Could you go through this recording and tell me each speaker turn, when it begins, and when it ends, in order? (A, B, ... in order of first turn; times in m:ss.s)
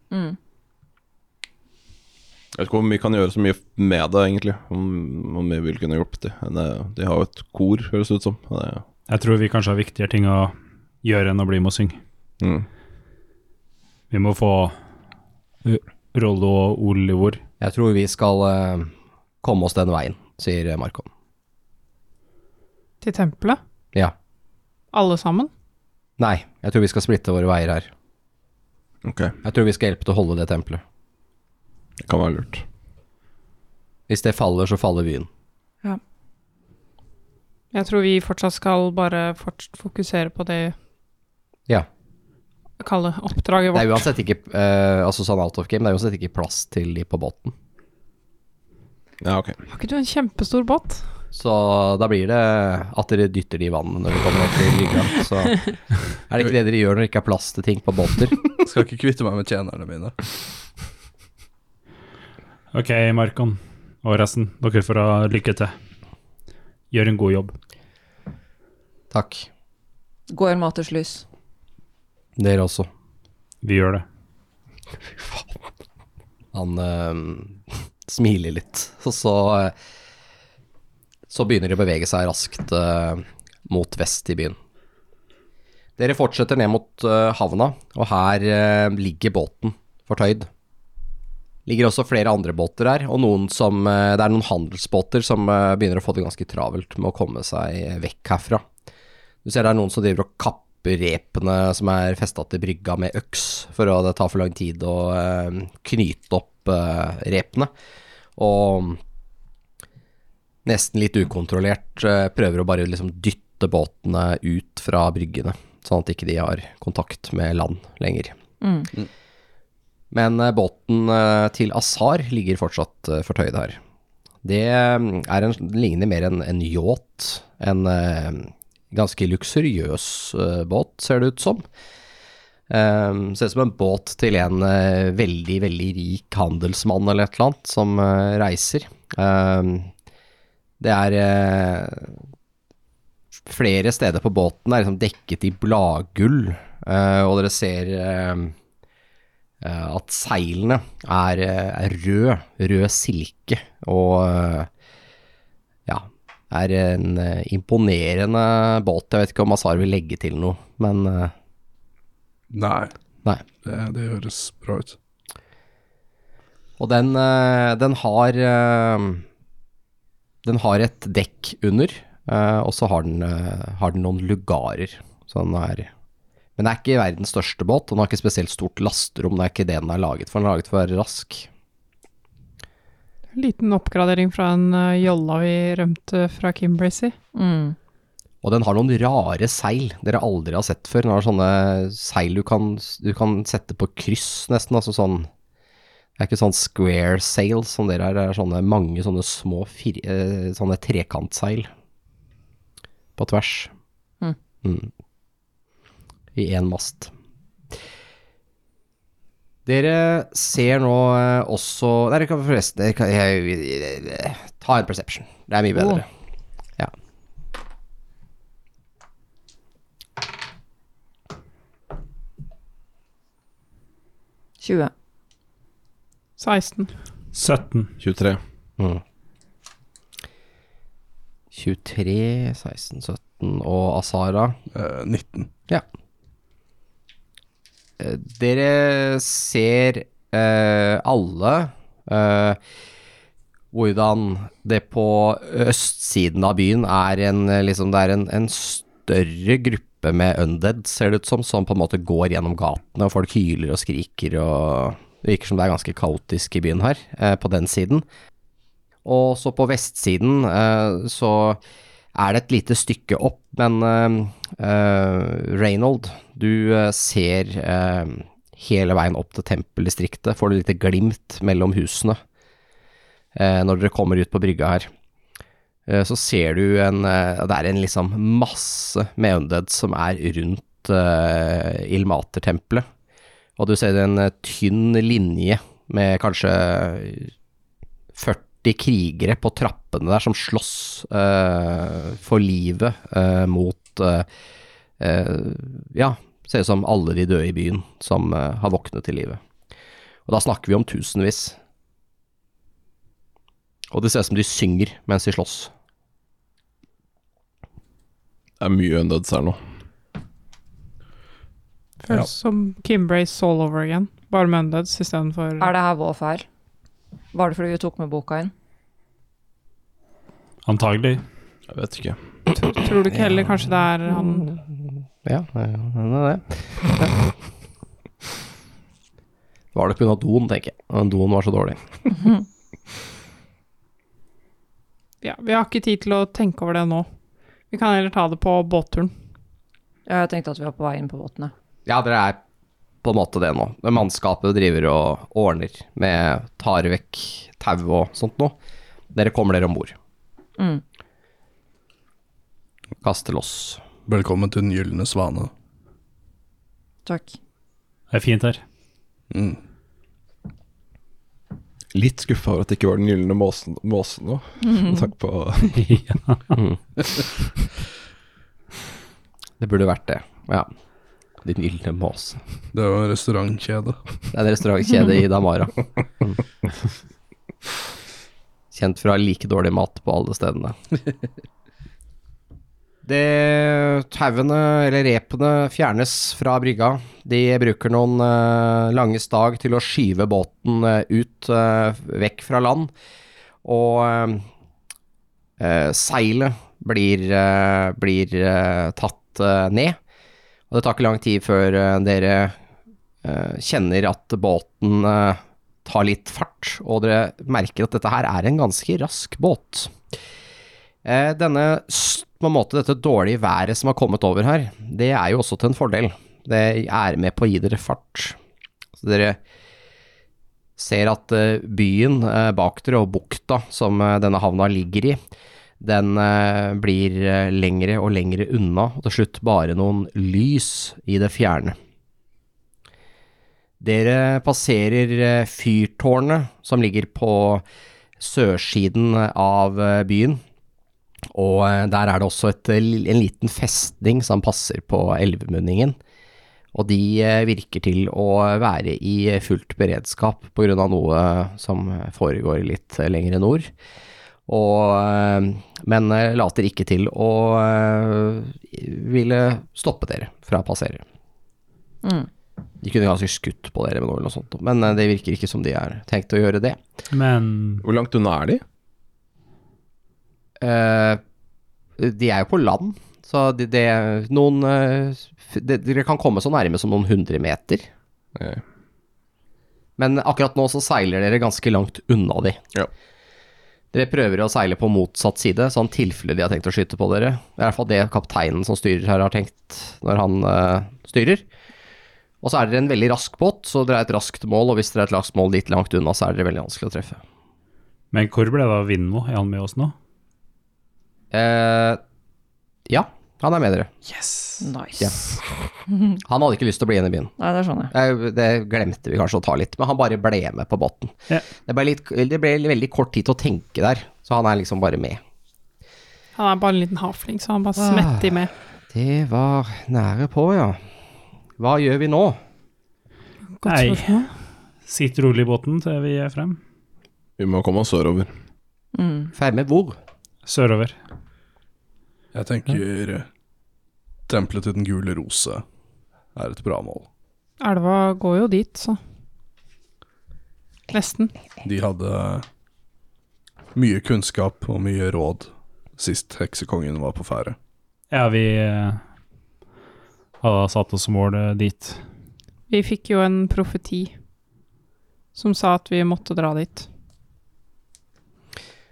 0:00.1-0:00.4 A
0:02.5-0:08.8 B
0:09.1-0:12.0 C
0:12.4-0:12.7 B
0:14.1-0:14.7 C
0:15.6-0:17.4 C
0:17.6-0:18.9 D
0:19.4-0:21.1 D
0:23.0-0:23.6 E
0:24.9-0:25.5 E
0:26.2-0:27.9 D
0:29.0-0:29.4 B
0:29.4-0:30.8 D
0:32.0-0:32.6 B
0:34.1-0:35.3 D
0:37.7-0:40.7 E
0:42.8-0:44.0 E
0:43.7-0:47.5 D
0:49.2-0:49.6 B
0:49.7-0:51.0 E
0:51.3-0:58.4 D
0:58.6-1:00.2 F
1:02.7-1:05.7 C
1:06.9-1:07.5 C
1:09.1-1:09.5 D
1:10.3-1:11.2 A
1:12.4-1:12.9 D
1:13.6-1:14.0 C
1:16.5-1:19.7 D
1:21.3-1:24.6 D
1:26.0-1:30.5 D
1:31.6-1:38.6 D
1:39.4-1:47.7 D
1:48.4-1:49.0 D
1:50.6-1:58.3 D
1:58.6-1:58.9 A
2:00.1-2:03.8 D
2:04.4-2:11.6 D
2:12.7-2:19.9 D
2:20.8-2:22.1 D
2:23.5-2:28.5 D
2:29.6-2:34.7 D
2:35.9-2:41.3 D
2:42.5-2:42.9 F
2:43.6-2:45.0 F
2:46.8-2:49.2 D
2:50.4-2:55.9 D
2:56.6-3:01.5 D
3:03.3-3:07.1 E
3:07.3-3:07.8 A
3:08.4-3:15.3 D
3:16.2-3:21.7 D
3:23.2-3:23.7 D
3:24.6-3:24.9 D
3:26.3-3:27.1 D
3:29.6-3:36.0 D
3:35.7-3:36.0 A
3:44.6-3:44.9 A
3:46.4-3:46.9 E
3:47.3-3:47.9 C
3:48.0-3:48.4 B
3:51.5-3:54.6 D
3:54.7-3:55.5 F
3:58.0-4:02.6 D
4:03.7-4:18.0 D
4:19.0-4:21.6 D
4:22.1-4:32.2 D
4:33.3-4:34.9 D
4:35.9-4:42.9 D
4:43.6-4:47.3 D
4:48.2-4:54.2 D
4:55.0-4:59.4 D
5:00.3-5:01.6 D
5:03.9-5:05.7 D
5:08.6-5:09.6 B
5:12.0-5:15.7 E
5:15.6-5:16.4 A
5:17.3-5:18.5 A
5:20.6-5:21.2 C
5:21.7-5:22.2 B
5:22.5-5:24.5 E
5:25.2-5:27.3 D
5:29.7-5:31.8 D
5:35.2-5:37.1 E
5:37.7-5:39.1 E
5:40.0-5:41.5 A
5:41.8-5:42.4 D
5:43.0-5:48.5 D
5:49.1-5:50.0 D
5:50.6-5:50.8 A
5:53.0-5:53.8 D
5:54.0-5:55.5 F
5:57.0-5:57.4 A
5:58.1-5:58.6 C
5:59.3-5:59.6 F
6:01.9-6:05.9 B
6:05.7-6:06.5 C
6:09.6-6:10.7 D
6:11.4-6:12.4 D
6:12.7-6:14.0 F
6:14.3-6:16.4 D
6:18.7-6:20.8 D
6:23.0-6:32.9 D
6:33.6-6:34.4 D
6:35.6-6:40.0 D
6:40.7-6:42.5 D
6:43.2-6:49.9 D
6:51.0-6:58.4 D
6:59.0-6:59.4 D
7:00.8-7:05.2 D
7:05.8-7:11.8 D
7:13.8-7:17.6 D
7:18.2-7:20.4 D
7:21.3-7:26.0 D
7:26.7-7:33.7 D
7:34.5-7:41.0 D
7:42.0-7:42.3 A
7:42.8-7:46.8 D
7:47.1-7:47.8 C
7:47.8-7:48.6 B
7:50.6-7:51.2 D
7:52.0-7:57.8 D
7:58.4-7:58.6 B
8:00.0-8:02.6 D
8:03.9-8:11.4 D
8:12.4-8:17.2 D
8:18.1-8:19.9 C
8:21.3-8:22.0 D
8:22.9-8:23.9 D
8:24.1-8:24.6 C
8:24.6-8:25.2 A
8:26.2-8:27.3 D
8:27.4-8:27.9 A
8:27.9-8:35.2 D
8:36.3-8:38.5 E
8:37.8-8:40.8 D
8:41.6-8:42.4 D
8:43.6-8:44.3 E
8:43.6-8:44.2 C
8:44.8-8:46.6 C
8:47.4-8:48.3 B
8:48.9-8:49.3 A
8:49.3-8:50.0 D
8:50.4-8:51.0 C
8:52.3-8:53.2 F
8:54.3-8:55.6 F
8:56.3-8:57.1 F
8:57.6-8:59.0 E
9:00.9-9:01.3 E
9:01.6-9:02.4 F
9:03.7-9:07.6 F
9:08.1-9:09.0 C
9:10.4-9:12.0 C
9:12.7-9:14.1 E
9:15.3-9:16.9 E